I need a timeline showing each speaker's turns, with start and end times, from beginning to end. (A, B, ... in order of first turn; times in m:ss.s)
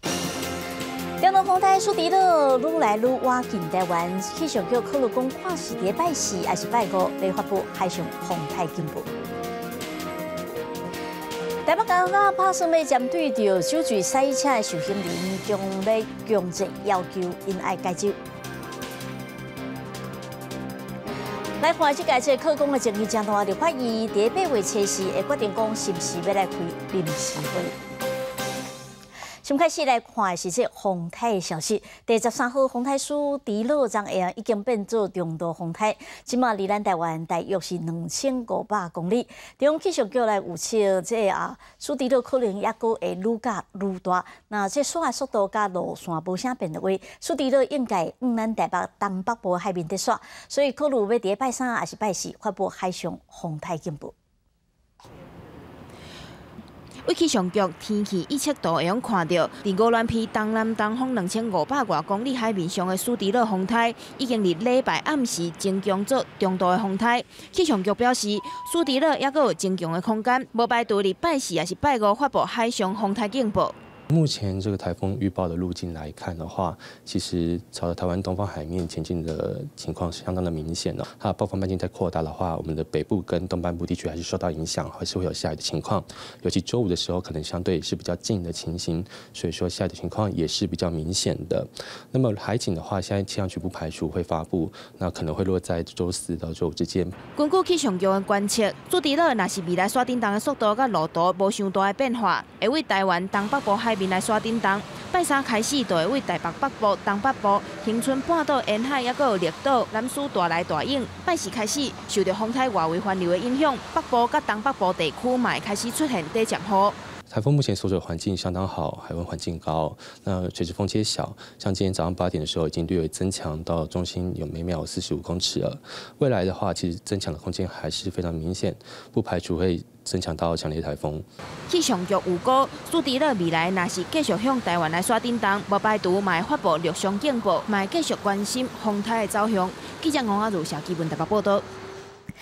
0:01.2-0:09.1 A
0:11.7-0:18.2 A
0:21.6-0:27.8 A
0:29.4-0:54.1 A
0:57.0-1:13.8 B
1:14.1-1:37.2 C
1:37.4-1:57.0 B
1:57.3-2:11.2 C
2:11.7-2:21.6 B